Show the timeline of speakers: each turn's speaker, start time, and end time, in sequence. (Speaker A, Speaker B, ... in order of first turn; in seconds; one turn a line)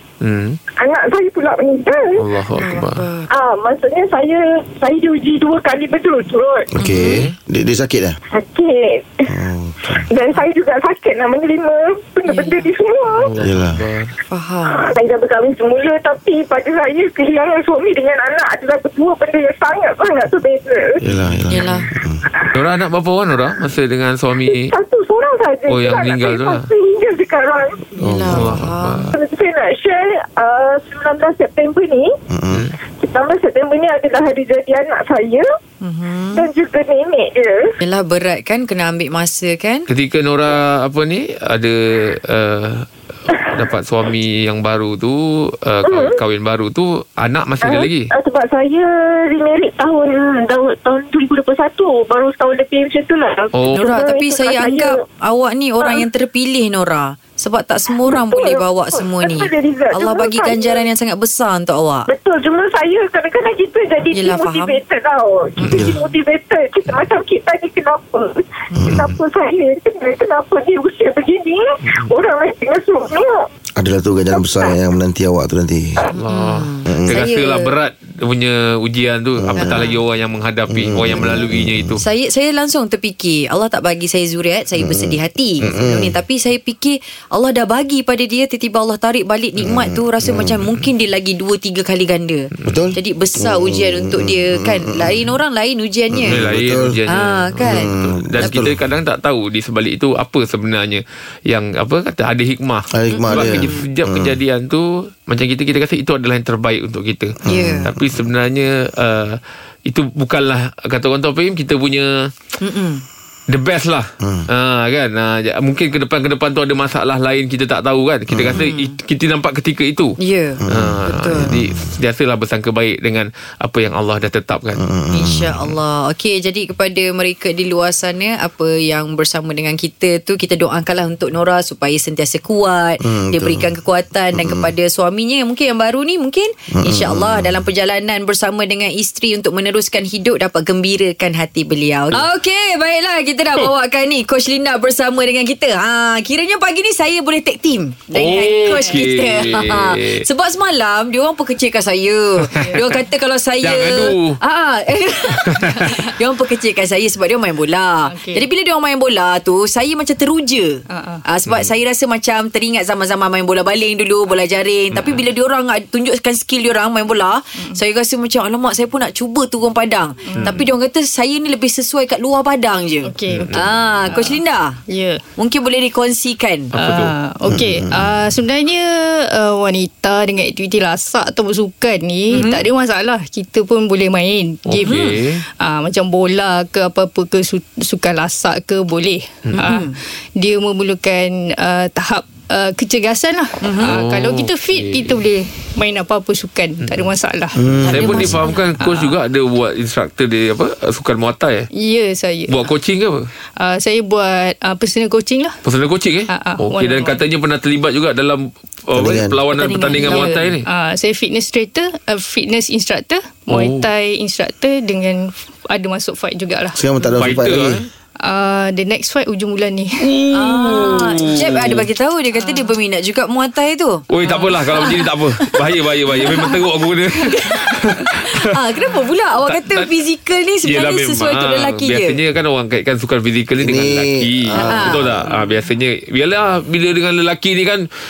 Speaker A: 0.2-0.6
Speaker B: 0.8-2.2
Speaker A: 2.2-3.0
Speaker C: 2.5-3.3
Speaker B: 3.3-6.7
Speaker D: 6.8-8.2
Speaker C: 6.8-7.2
Speaker A: 7.0-7.3
Speaker B: 8.3-9.3
Speaker D: 9.3-10.0
Speaker B: 9.9-13.3
Speaker C: 12.3-12.7
Speaker A: 13.2-14.1
Speaker D: 13.4-13.8
Speaker C: 14.3-14.8
Speaker B: 14.7-21.0
Speaker D: 21.0-22.2
Speaker A: 21.1-21.4
Speaker C: 21.5-21.9
Speaker A: 22.5-24.7
Speaker B: 24.5-27.9
Speaker A: 25.7-26.7
Speaker C: 28.0-29.1
Speaker D: 28.0-28.6
Speaker A: 28.3-29.1
Speaker B: 29.1-32.1
Speaker D: 32.3-32.6
Speaker B: 33.0-35.5
Speaker C: 35.8-36.5
Speaker B: 36.4-37.8
Speaker C: 37.8-39.9
Speaker A: 39.9-48.1
Speaker B: 45.8-46.2
Speaker B: 47.6-55.0
Speaker A: 53.5-53.8
Speaker C: 53.8-62.1
Speaker B: 58.0-60.9
Speaker B: 62.1-73.4
Speaker C: 64.1-64.8
Speaker D: 65.7-66.0
Speaker D: 68.8-69.1
Speaker D: 73.8-76.0
Speaker B: 74.4-74.7
Speaker A: 76.1-82.0
Speaker C: 76.3-77.7
Speaker D: 76.9-77.2
Speaker D: 79.4-79.9
Speaker C: 79.5-80.0
Speaker D: 80.7-82.0
Speaker C: 82.0-96.4
Speaker D: 84.8-86.1
Speaker D: 89.6-90.6
Speaker D: 92.6-95.3
Speaker D: 96.1-97.0
Speaker A: 96.3-112.3
Speaker C: 97.1-97.9
Speaker D: 97.6-98.8
Speaker D: 102.9-104.4
Speaker C: 103.1-103.8
Speaker C: 107.5-107.9
Speaker D: 107.5-108.2
Speaker C: 112.6-113.0
Speaker A: 113.5-120.2
Speaker D: 114.2-114.5
Speaker D: 118.3-118.6
Speaker C: 118.5-119.0
Speaker C: 120.2-121.5
Speaker D: 120.6-121.8
Speaker A: 120.7-124.8
Speaker D: 124.8-125.8
Speaker C: 125.1-174.8
Speaker D: 133.0-133.7
Speaker D: 134.3-134.7
Speaker D: 136.7-137.6
Speaker A: 148.1-150.2
Speaker E: 148.7-149.1
Speaker E: 152.6-153.0
Speaker A: 153.6-154.4
Speaker A: 155.5-155.9
Speaker E: 155.7-156.0
Speaker E: 158.1-158.4
Speaker E: 160.9-161.2
Speaker A: 164.9-165.2
Speaker E: 170.2-170.7
Speaker E: 173.0-175.2
Speaker A: 173.3-173.6
Speaker C: 175.4-176.7
Speaker A: 176.7-177.1
Speaker E: 176.8-197.6
Speaker D: 177.5-178.1
Speaker C: 182.3-182.6
Speaker A: 184.7-185.4
Speaker C: 184.8-185.2
Speaker C: 189.5-190.0
Speaker C: 193.6-193.9
Speaker A: 193.8-195.2
Speaker D: 197.6-198.3
Speaker C: 197.8-198.6
Speaker A: 197.9-201.7
Speaker E: 198.8-199.1
Speaker E: 201.8-202.7
Speaker A: 202.5-203.3
Speaker E: 203.6-205.6
Speaker A: 205.6-210.6
Speaker E: 206.3-207.2
Speaker D: 208.9-209.4
Speaker C: 209.5-210.4
Speaker E: 210.0-216.8
Speaker A: 213.5-213.9
Speaker D: 216.8-217.8
Speaker A: 217.2-217.9
Speaker E: 218.2-220.1
Speaker A: 220.0-221.8
Speaker C: 220.3-225.5
Speaker E: 222.4-222.7
Speaker A: 224.1-228.2
Speaker C: 226.1-226.6
Speaker C: 227.2-232.2
Speaker A: 229.5-229.9
Speaker A: 230.6-237.9
Speaker D: 233.6-235.2
Speaker C: 234.6-235.0